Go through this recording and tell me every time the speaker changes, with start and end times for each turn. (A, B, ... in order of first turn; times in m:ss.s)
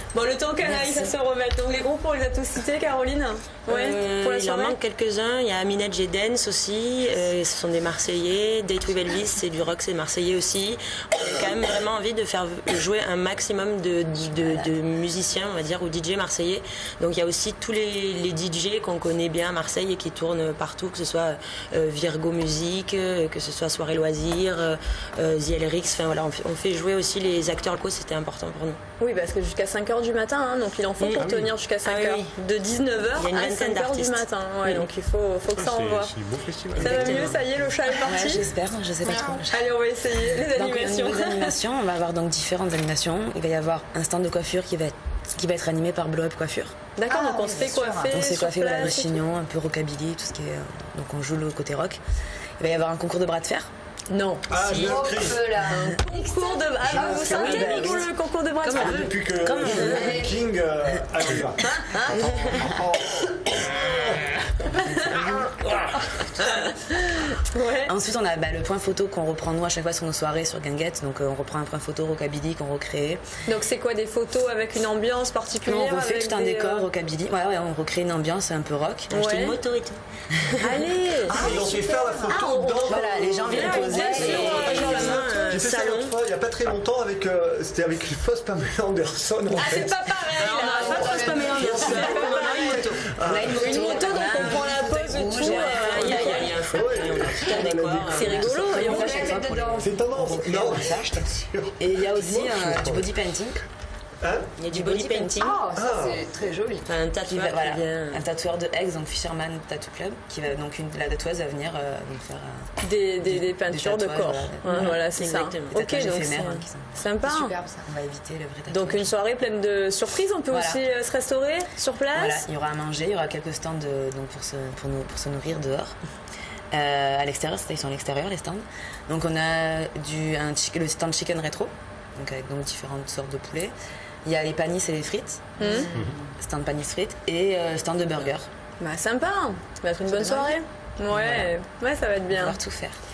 0:00.1-0:04.8 A
0:00.6-0:01.1 B
0:03.7-0:28.8 C
0:29.0-0:36.1 A
0:31.0-0:32.3 C
0:31.2-0:31.5 D
0:33.0-0:34.9 C
0:35.5-0:37.6 D
0:36.8-0:38.5 A
0:36.8-0:37.3 B
0:37.9-0:39.7 B
0:39.0-0:39.4 E
0:39.5-0:41.6 A
0:40.5-0:46.7 B
0:47.0-0:49.2 A
0:47.0-0:48.2 E
0:48.1-0:52.0 B
0:52.6-0:53.7 B
0:54.1-0:55.0 A
0:54.5-0:55.5 D
0:54.7-0:56.7 E
0:55.7-0:59.1 A
0:56.8-0:58.0 D
0:57.2-0:57.9 C
0:57.2-0:58.1 B
0:58.6-1:00.2 C
0:58.7-1:03.7 D
0:59.4-1:00.3 B
0:59.7-1:00.4 E
1:00.9-1:01.4 B
1:01.6-1:02.1 A
1:02.2-1:02.7 B
1:04.8-1:05.4 B
1:04.8-1:05.4 A
1:06.8-1:07.9 A
1:07.8-1:13.2 B
1:13.4-1:16.9 A
1:15.6-1:19.2 B
1:19.1-1:20.0 C
1:19.1-1:19.6 A
1:20.6-1:21.5 A
1:21.2-1:30.4 D
1:21.3-1:25.2 E
1:22.3-1:25.5 A
1:22.8-1:25.0 B
1:24.0-1:26.2 C
1:29.5-1:32.8 A
1:30.4-1:33.0 C
1:30.5-1:32.9 E
1:31.3-1:34.6 D
1:33.2-1:36.6 B
1:33.5-1:36.6 A
1:34.5-1:36.7 E
1:35.3-1:38.6 C
1:36.7-1:38.8 D
1:38.0-1:39.4 A
1:38.2-1:41.2 B
1:38.8-1:40.0 E
1:39.8-1:43.1 D
1:41.8-1:43.6 B
1:44.2-1:44.5 D
1:44.6-1:45.6 C
1:44.7-1:45.6 B
1:45.4-1:46.9 E
1:45.7-1:46.2 D
1:46.8-1:48.2 C
1:47.3-1:55.1 B
1:52.8-1:57.5 A
1:54.7-1:55.8 C
1:55.7-1:57.0 B
1:57.2-1:57.8 E
1:57.8-1:59.1 B
1:58.7-2:02.4 A
2:00.5-2:00.8 B
2:02.1-2:05.9 B
2:06.7-2:13.7 B
2:14.2-2:18.5 B
2:15.6-2:15.9 A
2:18.8-2:22.6 A
2:20.0-2:20.6 E
2:21.1-2:21.5 B
2:22.3-2:23.0 B